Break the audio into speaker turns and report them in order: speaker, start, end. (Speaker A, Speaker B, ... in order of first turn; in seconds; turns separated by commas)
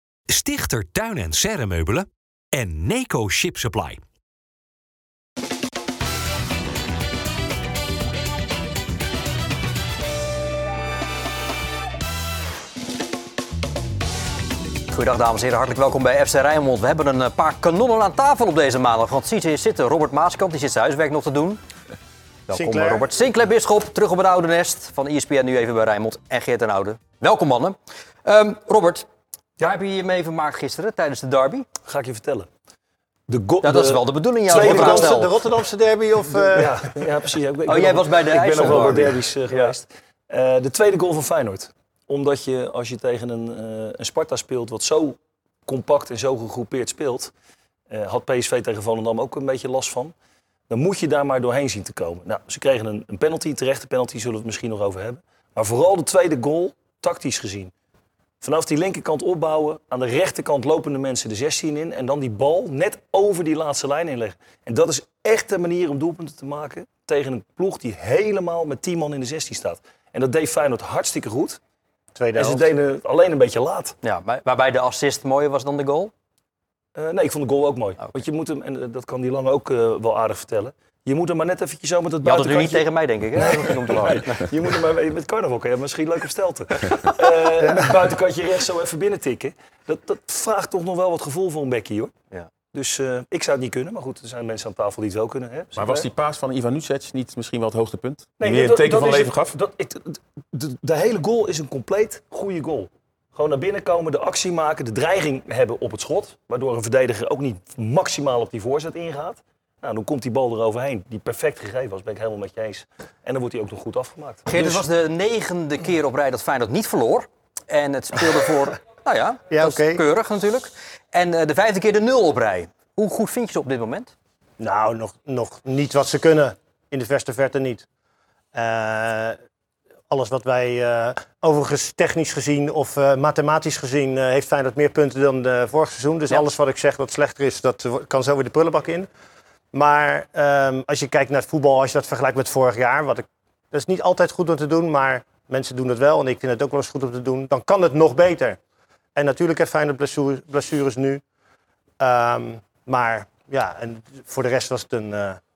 Speaker A: 0.3-4.0, Speaker B: 14.9-21.6, Speaker B: 22.5-29.1, Speaker C: 22.5-23.1, Speaker B: 29.6-31.7, Speaker D: 31.9-32.5, Speaker D: 33.3-35.3, Speaker B: 33.6-35.3, Speaker C: 34.5-37.0, Speaker D: 36.3-47.3, Speaker B: 37.7-39.7, Speaker D: 47.9-50.1, Speaker D: 50.7-57.7, Speaker D: 58.4-71.6, Speaker C: 72.2-72.7, Speaker D: 72.3-74.0, Speaker B: 74.0-76.1, Speaker D: 77.0-92.1, Speaker B: 82.2-84.5, Speaker D: 92.7-96.1, Speaker E: 95.8-99.5, Speaker D: 98.4-114.5, Speaker B: 114.5-124.1, Speaker C: 119.5-120.0, Speaker C: 124.6-127.9, Speaker C: 128.5-129.4, Speaker C: 130.1-139.1, Speaker C: 139.7-148.6, Speaker C: 149.2-151.2, Speaker C: 152.0-155.4